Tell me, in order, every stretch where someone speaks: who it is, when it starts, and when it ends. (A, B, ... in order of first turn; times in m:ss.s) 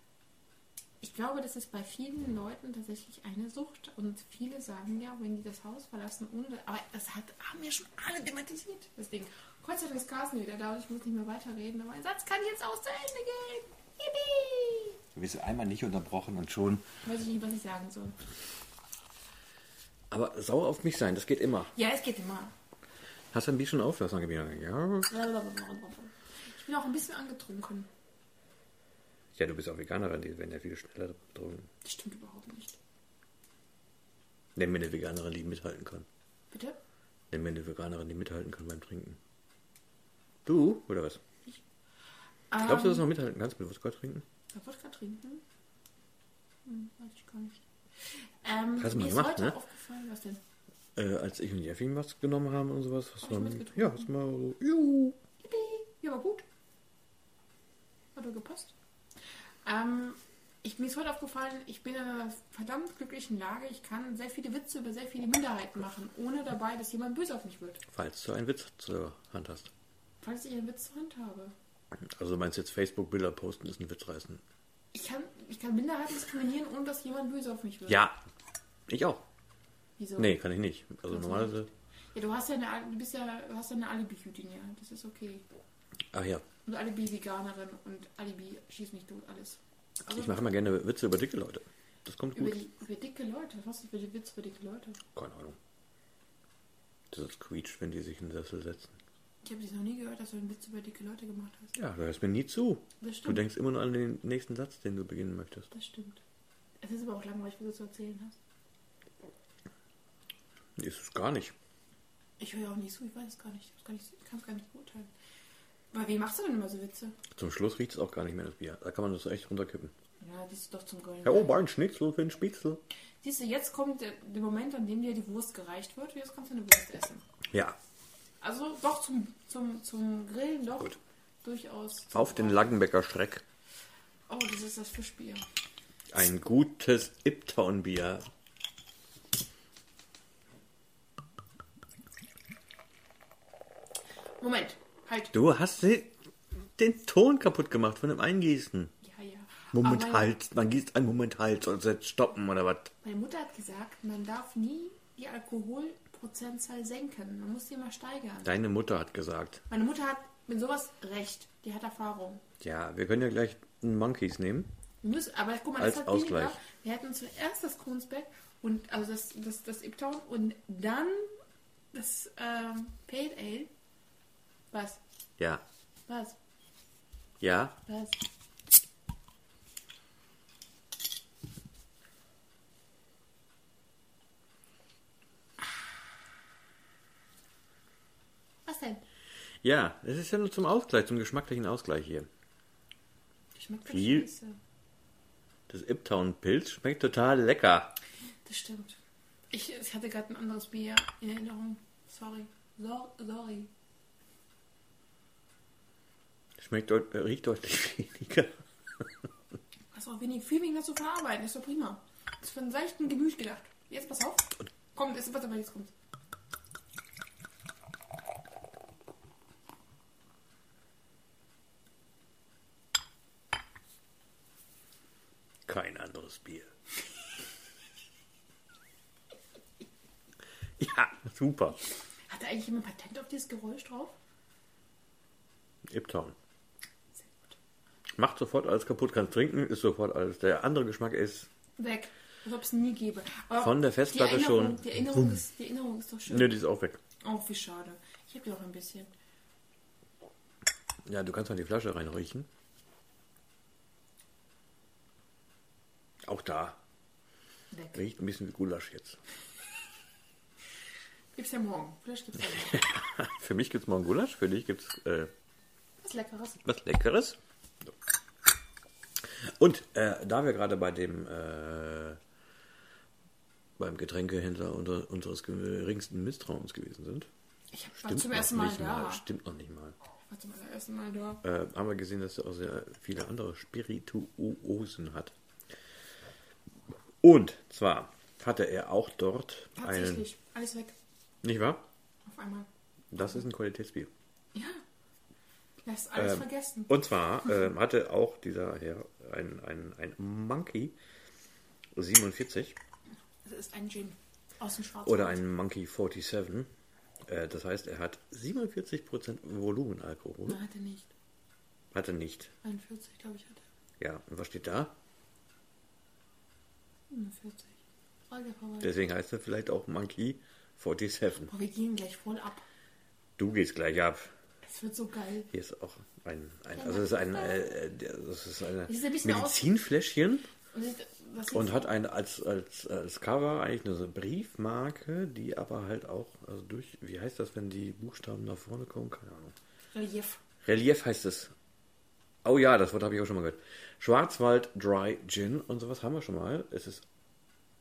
0:01.0-0:15.0 A
0:15.2-0:16.9 B
0:17.0-0:18.2 A
0:20.1-0:21.7 B
0:21.7-0:22.5 A
0:23.3-0:25.1 B
0:25.1-0:27.9 A
0:29.4-0:31.7 B
0:31.8-0:32.8 A
0:34.6-0:36.1 B
0:36.5-0:36.8 A
0:37.3-0:39.2 B
0:40.4-0:41.2 B
0:42.5-0:43.1 A
0:42.6-0:44.2 B
0:44.5-0:45.4 A
0:46.7-0:50.4 A
0:48.8-0:49.6 B
0:51.0-0:55.2 B
0:53.2-0:54.1 A
0:55.4-0:56.4 A
0:58.2-0:58.8 A
0:59.6-1:07.8 A
1:07.9-1:09.7 B
1:10.2-1:11.6 A
1:12.0-1:14.4 B
1:14.9-1:18.1 A
1:17.9-1:18.2 B
1:18.9-1:19.2 B
1:20.0-1:20.4 A
1:20.2-1:21.7 B
1:21.1-1:25.4 A
1:26.1-1:26.4 B
1:26.7-1:30.5 A
1:30.1-1:32.6 B
1:32.4-1:35.0 A
1:35.2-1:35.6 B
1:37.1-1:39.0 B
1:39.4-1:41.7 A
1:41.8-1:45.7 B
1:43.0-1:43.4 A
1:45.7-1:46.2 A
1:46.8-1:48.4 A
1:50.8-1:51.6 B
1:52.4-1:55.1 A
1:55.9-1:57.2 A
1:57.3-1:59.9 B
2:00.2-2:01.5 A
2:01.2-2:02.8 B
2:03.2-2:07.2 A
2:07.5-2:07.8 B
2:08.4-2:12.7 A
2:12.1-2:13.4 B
2:14.3-2:15.5 A
2:16.1-2:18.3 B
2:24.4-2:25.3 A
2:25.3-2:28.9 B
2:29.0-2:30.3 A
2:29.7-2:32.9 B
2:33.0-2:38.6 A
2:38.4-2:39.6 B
2:39.7-2:42.4 A
2:42.6-2:44.7 B
2:45.0-2:51.4 A
2:45.8-2:46.6 B
2:51.9-2:53.7 A
2:54.7-2:55.0 A
2:56.1-2:56.4 A
2:57.4-2:57.8 B
2:57.9-2:58.2 A
3:08.7-3:09.0 A
3:09.6-3:12.3 B
3:13.6-3:14.6 A
3:13.9-3:14.3 B
3:15.7-3:18.0 B
3:18.4-3:19.0 A
3:19.5-3:23.7 A
3:26.6-3:29.1 B
3:29.9-3:35.9 A
3:45.7-3:46.7 B
3:50.8-3:51.8 B
3:52.3-3:54.2 A
3:55.9-3:56.4 B
3:57.2-3:57.6 A
3:58.2-4:01.5 B
4:01.8-4:06.6 A
4:03.6-4:05.4 B
4:06.3-4:07.0 B
4:07.2-4:09.1 A
4:11.1-4:12.5 B
4:16.2-4:16.8 B
4:17.7-4:18.0 A
4:17.9-4:19.2 B
4:21.4-4:22.9 A
4:22.5-4:25.3 B
4:26.0-4:26.6 A
4:26.6-4:27.9 B
4:29.2-4:32.2 B
4:33.8-4:37.3 B
4:37.7-4:39.2 A
4:38.0-4:40.0 B
4:40.3-4:41.4 A
4:41.4-4:45.3 B
4:47.2-4:50.3 B
4:49.8-4:50.9 A
4:51.4-4:51.8 B
4:52.3-4:52.7 A
4:53.1-4:54.1 B
4:54.5-4:54.8 A
4:55.8-4:56.9 A
4:56.2-5:01.0 B
5:02.0-5:02.8 B
5:03.4-5:05.4 A
5:05.0-5:06.7 B
5:07.3-5:10.6 B
5:10.5-5:11.1 A
5:11.9-5:12.5 B
5:12.6-5:13.6 A
5:14.0-5:15.0 B
5:17.1-5:17.8 A
5:18.3-5:18.9 A
5:18.8-5:21.5 B
5:21.5-5:22.6 A
5:23.4-5:24.3 B
5:24.6-5:25.5 A
5:25.5-5:30.5 B
5:26.8-5:27.7 A
5:28.9-5:29.7 A
5:30.7-5:31.9 A
5:31.5-5:39.6 B
5:39.9-5:40.4 A
5:40.6-5:41.5 B
5:42.4-5:47.0 B